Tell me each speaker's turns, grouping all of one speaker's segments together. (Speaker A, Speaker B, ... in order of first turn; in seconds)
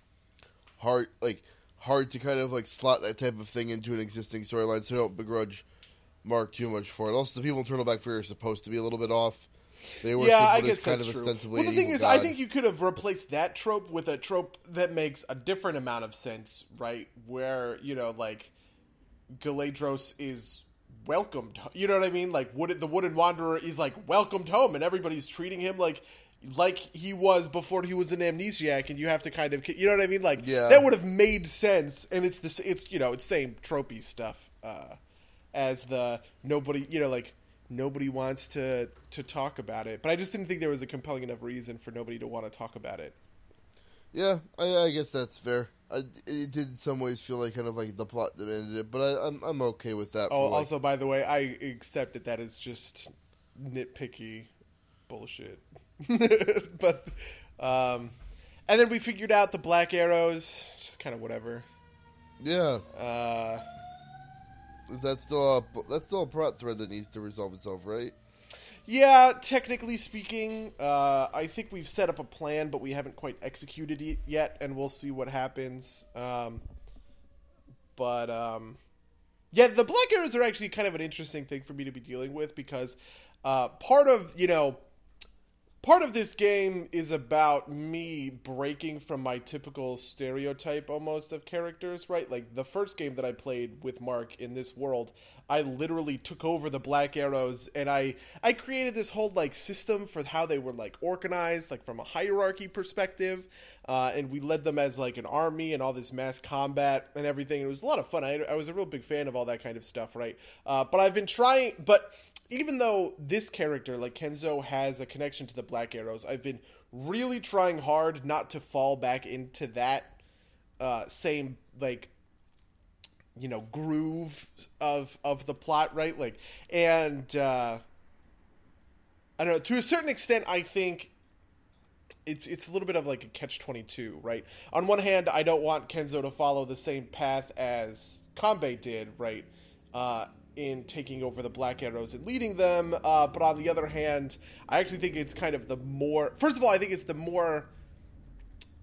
Speaker A: 0.8-5.7, 6.2-9.5, 10.0-12.3, 30.4-30.9, 44.1-50.7, 62.4-62.8, 64.9-68.2
Speaker B: 10.1-18.5, 19.4-35.0, 35.5-43.2, 50.3-54.5, 55.1-58.2, 58.7-61.7, 62.9-63.6, 68.9-76.7, 78.0-78.8, 79.5-84.8, 85.8-120.2, 120.8-122.1, 123.3-127.8, 129.4-131.1, 132.2-147.7